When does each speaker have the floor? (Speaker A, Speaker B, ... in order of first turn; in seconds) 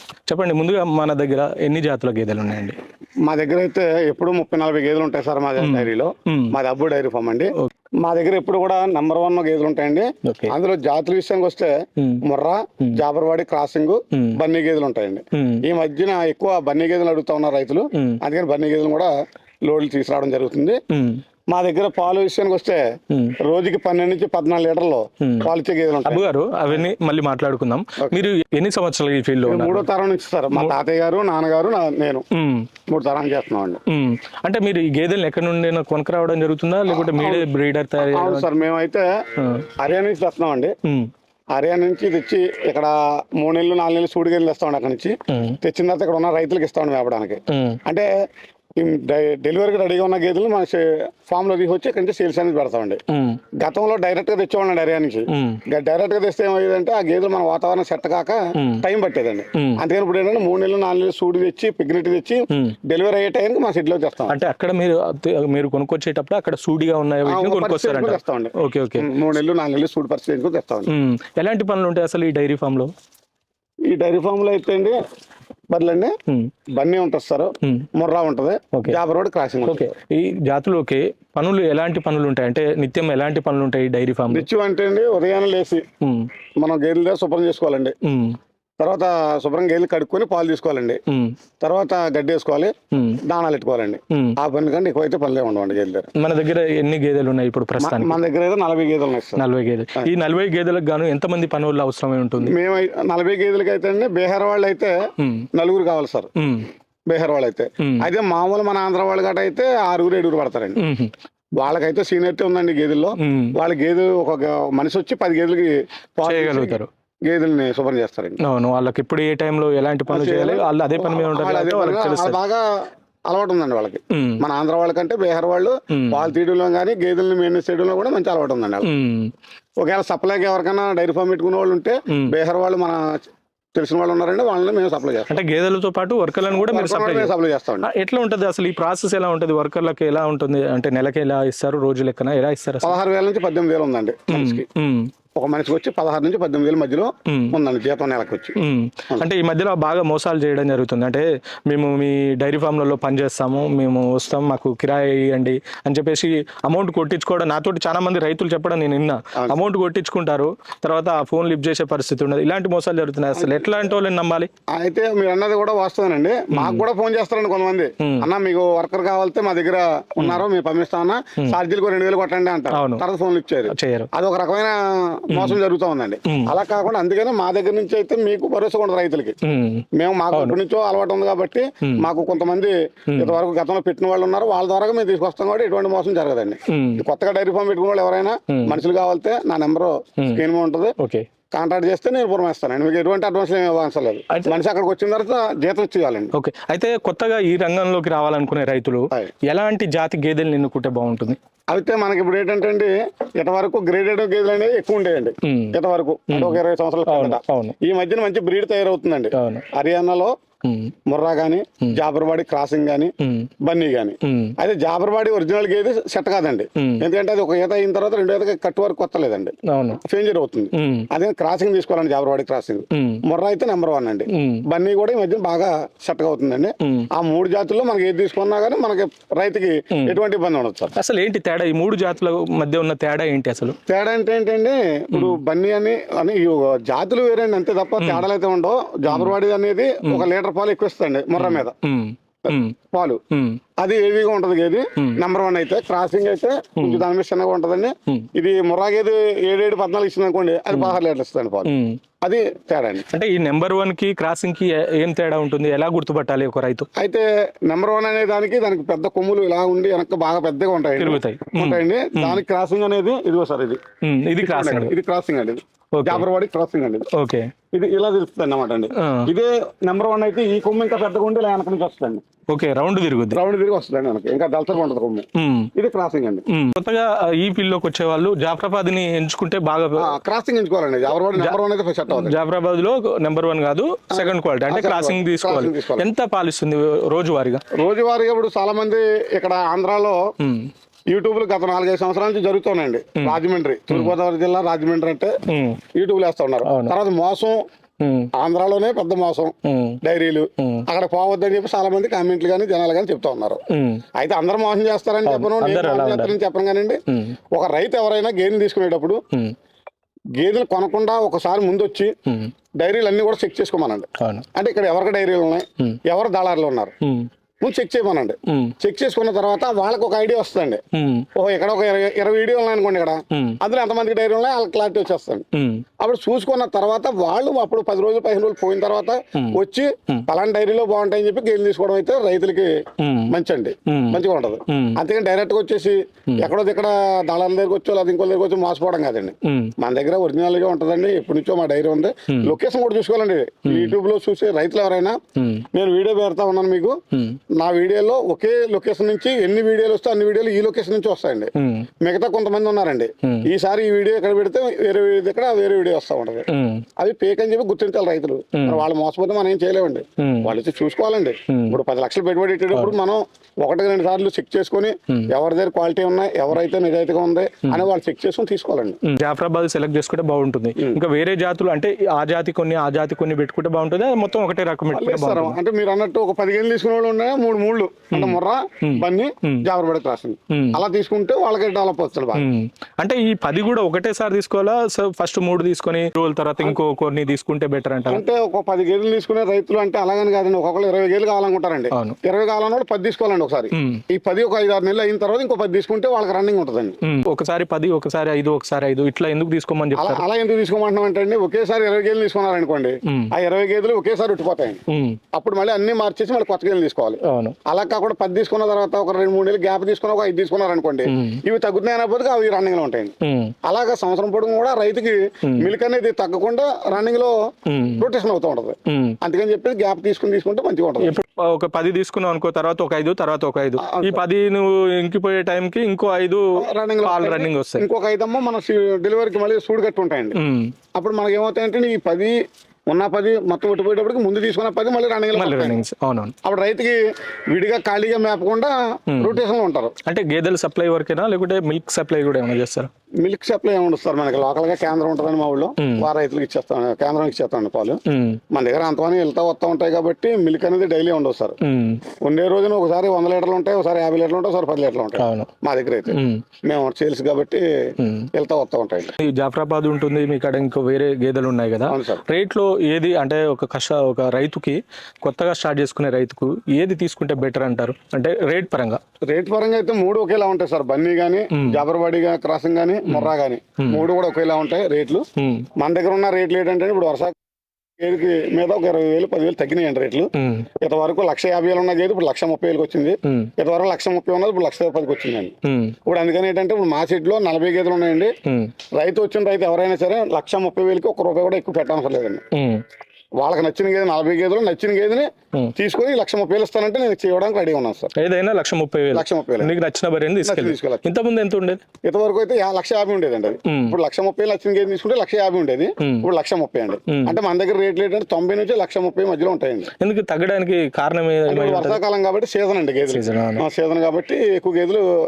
Speaker A: 0.3-2.8, 5.6-6.5, 10.2-10.5, 14.1-14.4, 15.3-15.6, 17.9-18.2, 20.9-21.2, 25.2-25.5, 26.1-29.9, 32.3-32.7, 33.9-38.5, 39.4-39.7, 45.3-45.6, 47.5-47.8, 53.1-53.4, 55.3-55.6, 58.6-58.8, 59.5-59.8, 62.5-62.8, 64.3-69.1, 70.9-72.9, 79.7-84.5, 86.0-86.3, 88.0-88.4, 91.1-91.3, 92.9-93.2, 94.1-94.4, 96.2-98.2, 99.4-102.5, 105.2-105.5, 106.4-106.7, 107.8-108.1, 110.8-111.1, 113.2-113.5, 116.2-116.9, 118.4-122.4, 124.1-124.4, 125.9-126.3, 128.8-129.3, 135.3-143.0, 144.3-145.1, 147.3-147.6, 148.6-164.5, 166.5-166.8, 168.0-168.3, 172.7-173.1, 173.7-174.1, 175.3-175.6, 179.4-180.6, 183.1-183.4, 186.7-187.0, 188.5-188.8, 191.0-191.3, 196.3-201.4, 205.4-205.8, 206.3-207.8, 209.3-209.7, 210.7-210.9, 213.2-213.5, 214.2-214.6, 216.8-217.0, 219.7-220.0, 220.7-221.1, 222.9-223.2, 224.3-224.7, 226.8-227.1, 231.0-233.8, 235.1-235.4, 238.0-238.2, 239.1-239.3, 241.4-242.8, 243.3-243.6, 246.8-247.0, 250.7-251.0, 251.7-252.0, 253.1-256.9, 261.0-262.4, 264.0-264.9, 265.9-266.2, 267.1-267.5, 269.0-269.3, 272.5-273.4, 275.4-275.7, 276.5-280.1, 281.3-281.6, 282.1-287.6, 290.4-290.7, 295.5-295.8, 296.6-296.9, 298.0-298.3, 299.6-300.0, 300.6-300.9, 303.7-304.0, 305.3-306.4, 307.1-307.4, 314.2-314.5, 317.0-317.3, 318.5-318.7, 320.9-321.3, 323.3-323.6, 325.5-325.9, 333.0-333.4, 333.9-335.0, 339.4-339.7, 342.3-342.6, 343.7-343.9, 345.4-345.6, 347.1-347.4, 351.6-351.9, 356.5-356.9, 358.6-358.8, 360.2-360.5, 361.5-361.8, 362.7-363.0, 369.0-375.6, 378.1-379.6, 380.5-380.8, 382.4-388.2, 391.9-392.2, 393.8-394.0, 397.0-400.2, 403.1-403.3, 404.9-405.2, 407.2-407.6, 411.1-411.4, 413.2-413.5, 417.7-418.1, 418.9-419.2, 421.0-427.9, 430.4-430.7, 435.4-436.3, 439.1-439.4, 440.1-442.9, 445.8-446.1, 448.1-448.4, 451.6-452.0, 455.2-455.5, 456.1-456.4, 458.0-458.3, 459.2-469.0, 471.5-471.8, 473.1-474.0, 475.4-475.7, 480.4-480.7, 485.6-486.0, 488.5-488.7, 492.5-492.8, 498.2-501.8, 503.7-504.0, 506.0-506.3, 507.1-507.4, 510.0-512.0, 513.1-513.6
Speaker B: 3.2-19.1, 19.7-20.8, 21.5-22.8, 23.4-26.8, 28.0-28.3, 29.5-32.2, 32.9-33.8, 36.9-37.5, 38.1-39.1, 39.8-40.7, 41.5-48.1, 48.8-53.0, 53.6-64.4, 67.3-70.9, 73.9-75.0, 75.7-76.1, 76.7-79.9, 84.3-85.8, 86.6-88.0, 88.8-91.0, 91.6-92.7, 93.3-96.1, 97.8-99.5, 102.4-105.0, 105.5-106.3, 107.1-110.8, 111.6-118.4, 120.1-128.9, 129.8-133.2, 133.8-135.4, 136.5-137.9, 142.8-144.7, 145.4-148.6, 163.3-163.9, 164.7-179.4, 180.0-190.9, 191.5-196.3, 201.7-210.3, 211.1-230.9, 233.9-241.7, 242.5-243.2, 243.8-253.1, 257.0-263.8, 264.4-267.1, 267.7-272.2, 273.3-276.4, 280.0-282.4, 284.1-286.1, 287.8-290.2, 291.1-295.4, 296.0-297.6, 298.4-303.6, 304.2-307.0, 307.5-309.2, 310.4-312.1, 312.8-316.9, 317.6-320.8, 321.4-325.4, 326.0-332.7, 333.3-345.2, 345.7-347.0, 347.6-356.5, 357.0-369.0, 374.9-382.5, 388.1-397.0, 399.9-404.8, 405.3-413.1, 413.7-417.3, 418.0-421.2, 423.8-424.2, 426.6-430.4, 431.0-432.4, 432.9-435.8, 436.4-437.0, 437.5-439.9, 443.2-448.0, 448.5-451.6, 452.2-457.7, 458.3-459.1, 461.9-462.2, 469.3-475.2, 475.8-477.4, 478.0-485.5, 486.1-488.3, 489.0-492.4, 493.4-498.1, 499.1-499.7, 500.4-501.1, 502.0-509.9, 511.5-515.1